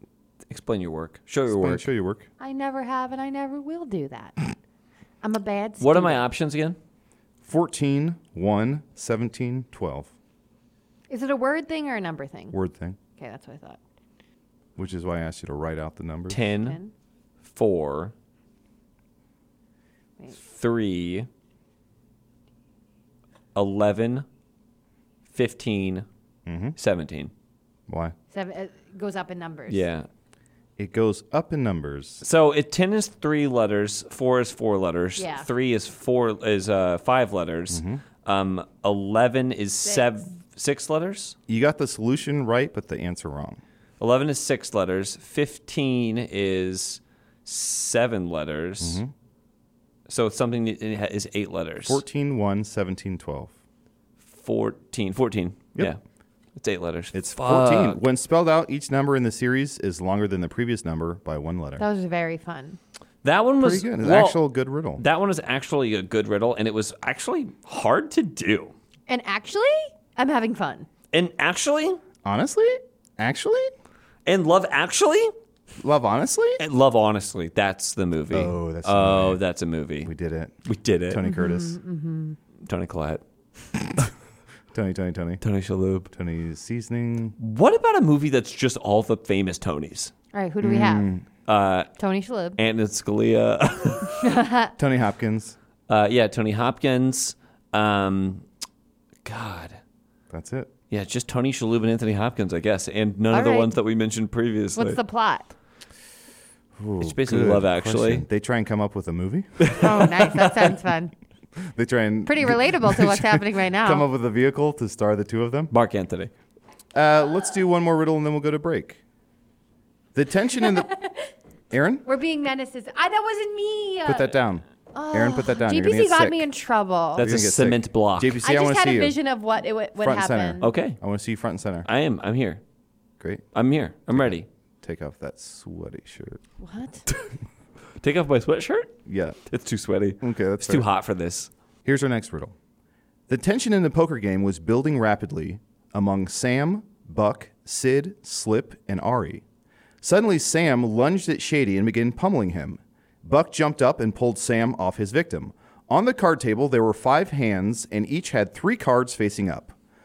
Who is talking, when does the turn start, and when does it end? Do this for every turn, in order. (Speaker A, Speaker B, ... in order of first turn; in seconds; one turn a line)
Speaker A: 0.5-1.9
Speaker B: 1.5-2.3
Speaker C: 2.4-4.3
Speaker C: 5.2-6.2
Speaker A: 5.8-6.8
Speaker B: 7.4-10.1
Speaker C: 11.1-12.6
Speaker B: 12.5-13.0
Speaker C: 13.2-13.8
Speaker B: 14.8-16.4
Speaker A: 16.3-16.8
Speaker C: 16.5-16.9
Speaker A: 17.4-18.1
Speaker A: 20.4-21.3
Speaker A: 23.5-24.2
Speaker A: 25.3-26.1
Speaker B: 26.4-26.8
Speaker A: 26.8-27.3
Speaker B: 27.9-28.1
Speaker C: 28.3-29.8
Speaker A: 29.7-30.1
Speaker B: 30.8-32.2
Speaker A: 32.2-41.4
Speaker C: 35.2-35.5
Speaker B: 37.7-38.0
Speaker B: 41.5-43.6
Speaker A: 44.0-49.0
Speaker B: 48.8-49.1
Speaker A: 50.1-52.0
Speaker B: 51.8-53.5
Speaker A: 54.3-56.0
Speaker A: 56.5-58.0
Speaker B: 57.1-61.8
Speaker C: 61.8-62.8
Speaker A: 63.2-64.4
Speaker B: 63.6-65.0
Speaker A: 65.0-68.7
Speaker C: 69.1-70.9
Speaker A: 71.1-72.0
Speaker B: 72.2-73.7
Speaker A: 74.2-75.3
Speaker B: 75.8-76.6
Speaker A: 76.6-80.1
Speaker B: 78.3-79.4
Speaker B: 80.0-80.5
Speaker A: 80.6-81.2
Speaker B: 81.1-81.8
Speaker C: 81.2-82.4
Speaker A: 82.6-83.2
Speaker B: 84.7-85.4
Speaker A: 85.4-86.1
Speaker B: 86.1-87.3
Speaker A: 87.4-90.1
Speaker C: 90.3-91.1
Speaker B: 90.6-91.3
Speaker A: 91.4-91.9
Speaker C: 92.0-92.6
Speaker A: 92.5-94.2
Speaker C: 94.2-94.7
Speaker B: 94.8-95.5
Speaker A: 95.9-98.4
Speaker A: 99.2-99.8
Speaker B: 100.3-100.7
Speaker A: 100.9-105.0
Speaker C: 103.3-103.7
Speaker C: 104.8-105.5
Speaker B: 106.8-110.0
Speaker A: 107.0-108.2
Speaker A: 109.6-110.7
Speaker C: 109.7-111.1
Speaker B: 111.6-115.7
Speaker C: 112.2-114.0
Speaker A: 115.7-116.3
Speaker B: 116.9-119.0
Speaker B: 120.1-120.9
Speaker B: 121.7-122.0
Speaker C: 122.0-124.3
Speaker B: 124.0-126.5
Speaker C: 124.9-127.2
Speaker A: 127.2-128.4
Speaker B: 127.2-129.2
Speaker C: 128.4-130.7
Speaker B: 130.0-131.9
Speaker A: 130.6-131.0
Speaker A: 131.8-132.6
Speaker A: 133.5-134.5
Speaker B: 134.2-136.4
Speaker C: 136.6-137.0
Speaker A: 138.0-138.9
Speaker B: 139.1-139.4
Speaker A: 139.5-141.5
Speaker B: 140.2-140.8
Speaker B: 141.8-142.5
Speaker B: 143.3-149.4
Speaker B: 150.0-159.7